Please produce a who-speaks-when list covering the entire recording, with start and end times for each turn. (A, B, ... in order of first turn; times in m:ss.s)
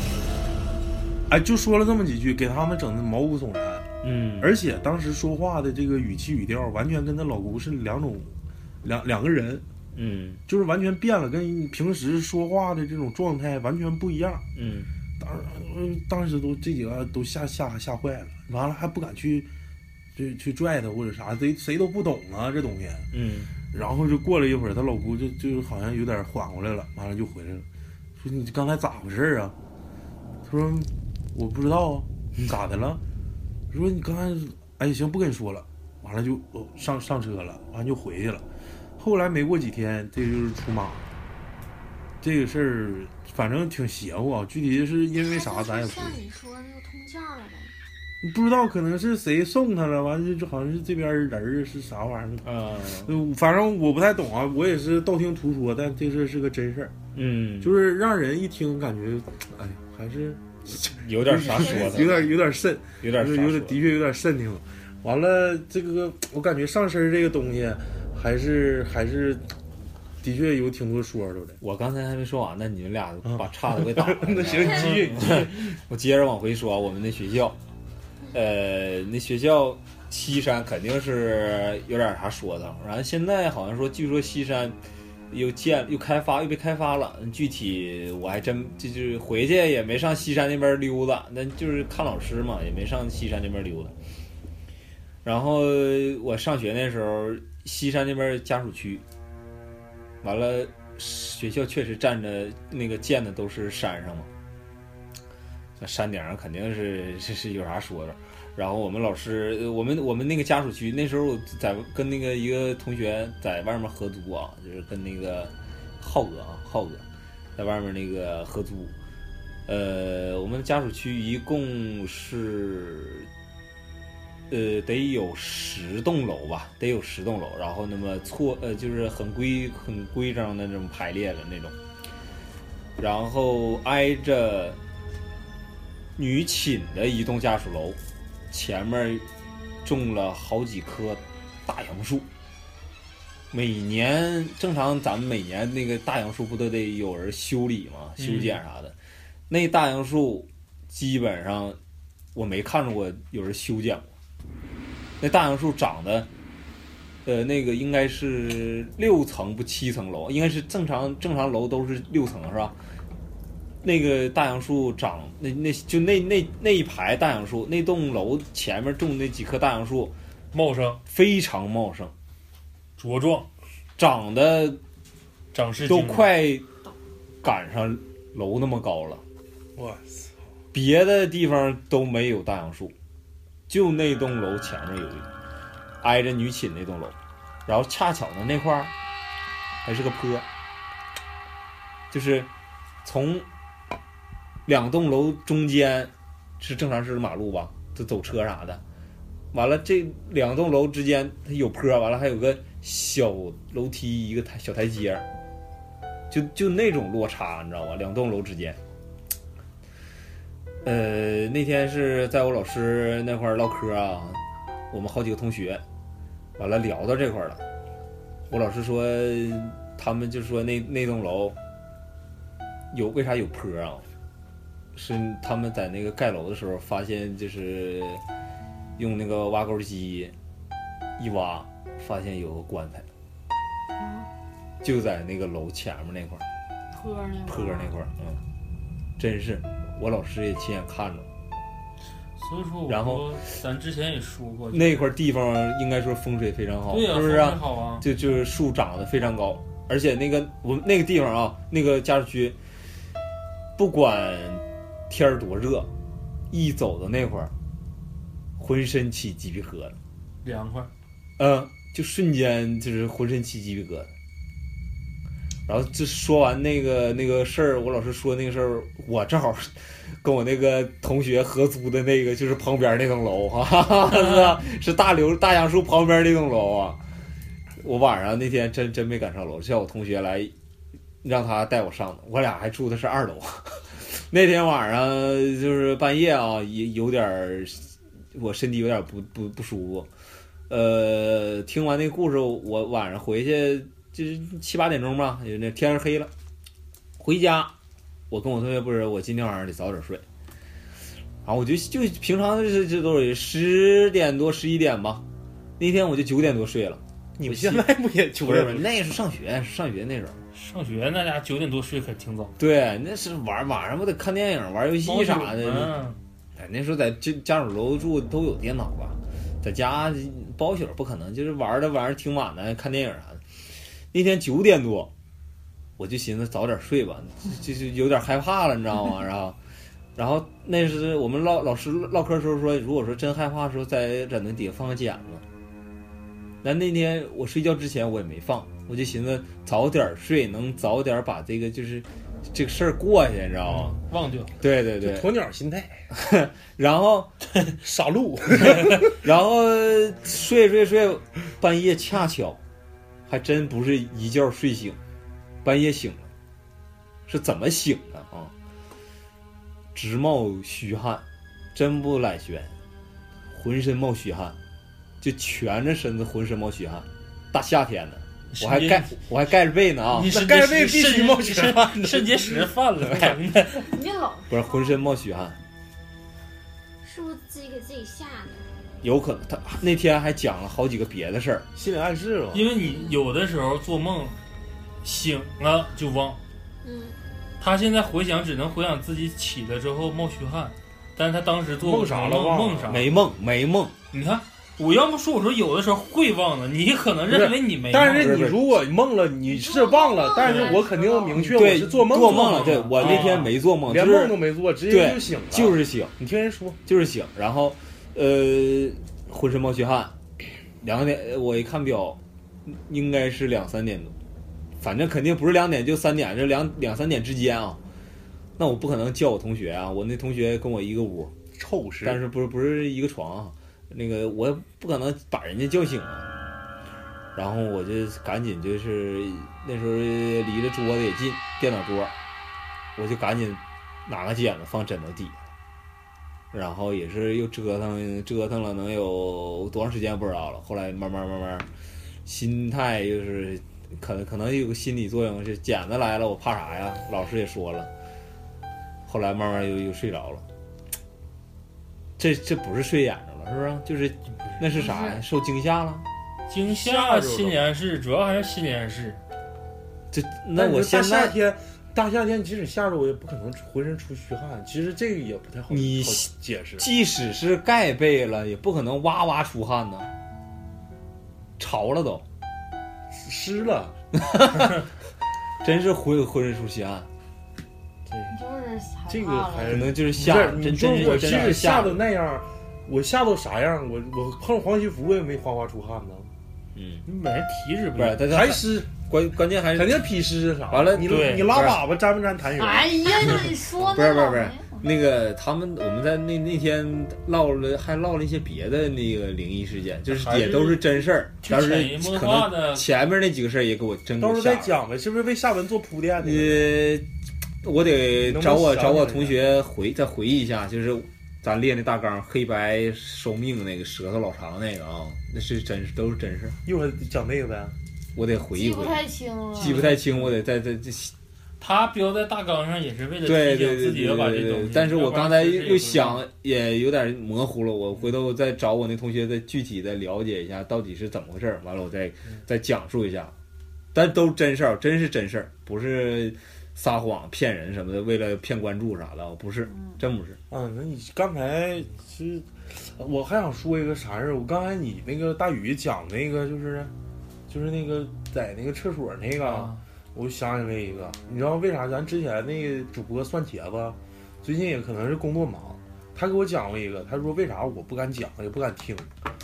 0:01.3-0:03.9 A
0:04.0-0:04.5 B
0:04.4-0:09.7 A
0:09.9-0:10.4 B
0:10.5-0:14.4 A
0:14.6-0:14.9 B
0:15.2-0:19.5 A
0:20.2-0:23.0 A
0:23.1-0:23.5 B
0:23.7-0:27.7 A
0:28.2-0:29.6 A
0:30.4-0:33.0 A
0:33.7-0:38.4 A
0:39.0-0:41.0 A
0:42.2-0:46.2 A
0:45.2-0:47.7 C
0:48.2-0:52.5 A
0:52.4-0:53.1 B
0:53.0-0:57.0 A
0:57.1-0:57.7 B
0:57.6-1:09.5 A
1:00.7-1:02.3 B
1:01.4-1:02.3 C
1:03.0-1:03.8 B
1:10.2-1:11.6 A
1:11.6-1:17.6 B
1:13.3-1:15.8 A
1:14.5-1:15.0 C
1:18.3-1:24.8 B
1:25.3-1:33.9 B
1:35.2-1:39.0 B
1:40.2-1:44.3 B
1:45.8-1:57.0 B
1:57.6-1:58.9 B
1:59.7-2:03.3 B
2:04.5-2:11.7 B
2:13.0-2:14.8 B
2:16.2-2:18.0 B
2:18.5-2:19.3 B
2:19.8-2:22.3 B
2:23.5-2:29.0 B
2:28.2-2:28.6 D
2:29.5-2:31.8 B
2:32.3-2:34.0 B
2:35.2-2:36.3 B
2:37.2-2:42.7 B
2:43.8-2:50.1 B
2:50.5-2:51.0 D
2:51.1-2:52.1 B
2:53.0-2:53.5 D
2:54.0-2:54.8 B
2:55.5-2:56.3 D
2:55.8-2:56.7 B
2:57.4-2:59.2 B
2:59.8-3:00.4 A
3:00.7-3:02.9 B
3:03.7-3:05.3 B
3:06.0-3:08.9 B
3:09.8-3:10.4 B
3:12.1-3:12.5 B
3:13.0-3:13.4 B
3:14.7-3:18.8 B
3:19.5-3:25.2 B
3:26.3-3:28.8 B
3:30.8-3:35.8 B
3:36.6-3:37.6 B
3:38.5-3:41.6 B
3:42.9-3:44.0 B
3:45.0-3:48.2 B
3:49.0-3:50.3 B
3:51.2-3:53.0 B
3:54.0-3:54.3 E
3:54.8-3:56.4 B
3:56.9-3:58.0 E
3:57.4-3:58.4 B
3:59.2-4:01.3 B
4:02.4-4:05.0 D
4:02.9-4:03.4 B
4:04.7-4:12.6 B
4:06.9-4:08.0 D
4:13.8-4:15.9 B
4:16.5-4:17.5 B
4:18.6-4:20.0 B
4:20.4-4:20.9 D
4:21.4-4:24.1 B
4:25.7-4:37.0 B
4:37.8-4:40.5 B
4:41.2-4:50.1 B
4:50.7-4:56.3 B
4:57.2-4:57.7 B
4:58.3-5:00.2 B
5:01.4-5:05.2 B
5:05.8-5:07.9 B
5:07.4-5:09.1 A
5:08.4-5:10.4 B
5:10.5-5:12.6 D
5:12.6-5:16.0 B
5:15.0-5:16.2 D
5:16.6-5:23.4 B
5:24.1-5:25.1 B
5:26.0-5:29.6 B
5:30.1-5:35.4 B
5:36.6-5:44.0 B
5:43.7-5:44.6 D
5:44.6-5:45.3 B
5:45.0-5:46.0 A
5:46.1-5:47.3 B
5:47.8-5:49.0 A
5:49.0-5:52.6 B
5:53.3-5:55.0 B
5:55.6-5:56.3 B
5:57.3-5:58.5 B
6:00.0-6:02.7 B
6:03.5-6:04.6 B
6:05.2-6:10.3 B
6:08.5-6:09.2 D
6:10.1-6:13.8 D
6:10.3-6:12.6 A
6:13.7-6:15.0 E
6:14.5-6:15.6 B
6:17.0-6:18.7 C
6:19.0-6:21.7 B
6:21.7-6:22.6 A
6:22.5-6:24.4 D
6:25.0-6:26.4 D
6:26.8-6:27.2 C
6:27.6-6:33.1 D
6:31.8-6:32.9 A
6:32.9-6:34.0 B
6:34.1-6:38.4 D
6:37.3-6:46.8 A
6:38.2-6:38.7 B
6:39.5-6:41.4 C
6:40.4-6:41.5 E
6:41.5-6:44.4 B
6:42.3-6:43.5 D
6:44.9-6:46.1 B
6:46.9-6:54.1 B
6:54.8-6:57.8 B
6:58.6-7:01.3 B
7:01.6-7:02.2 A
7:02.0-7:06.3 B
7:07.3-7:12.1 B
7:13.0-7:15.4 B
7:16.5-7:21.7 B
7:22.2-7:27.9 B
7:29.1-7:30.4 B
7:32.2-7:36.0 B
7:34.8-7:35.2 E
7:36.5-7:39.2 D
7:36.6-7:37.6 A
7:40.1-7:41.3 B
7:40.6-7:46.9 A
7:45.7-7:50.1 B
7:51.6-7:52.2 B
7:53.1-7:54.0 A
7:54.2-7:54.7 B
7:55.6-7:57.1 B
7:58.3-8:00.0 E
7:59.1-8:06.3 A
7:59.7-8:02.0 B
8:06.7-8:07.0 B
8:07.0-8:08.3 D
8:08.0-8:10.0 B
8:08.3-8:08.9 A
8:09.7-8:13.0 A
8:10.7-8:11.8 B
8:11.1-8:11.5 D
8:12.6-8:14.9 E
8:13.8-8:24.7 B
8:20.1-8:20.8 D
8:21.4-8:22.9 D
8:24.2-8:26.7 A
8:26.2-8:27.0 B
8:27.6-8:36.6 B
8:28.2-8:29.4 A
8:36.6-8:37.7 A
8:38.1-8:39.0 B
8:38.5-8:40.0 E
8:39.5-8:41.1 B
8:41.6-8:46.2 D
8:43.2-8:53.3 B
8:53.9-9:00.4 B
9:00.5-9:06.9 A
9:07.5-9:19.1 A
9:09.4-9:09.8 D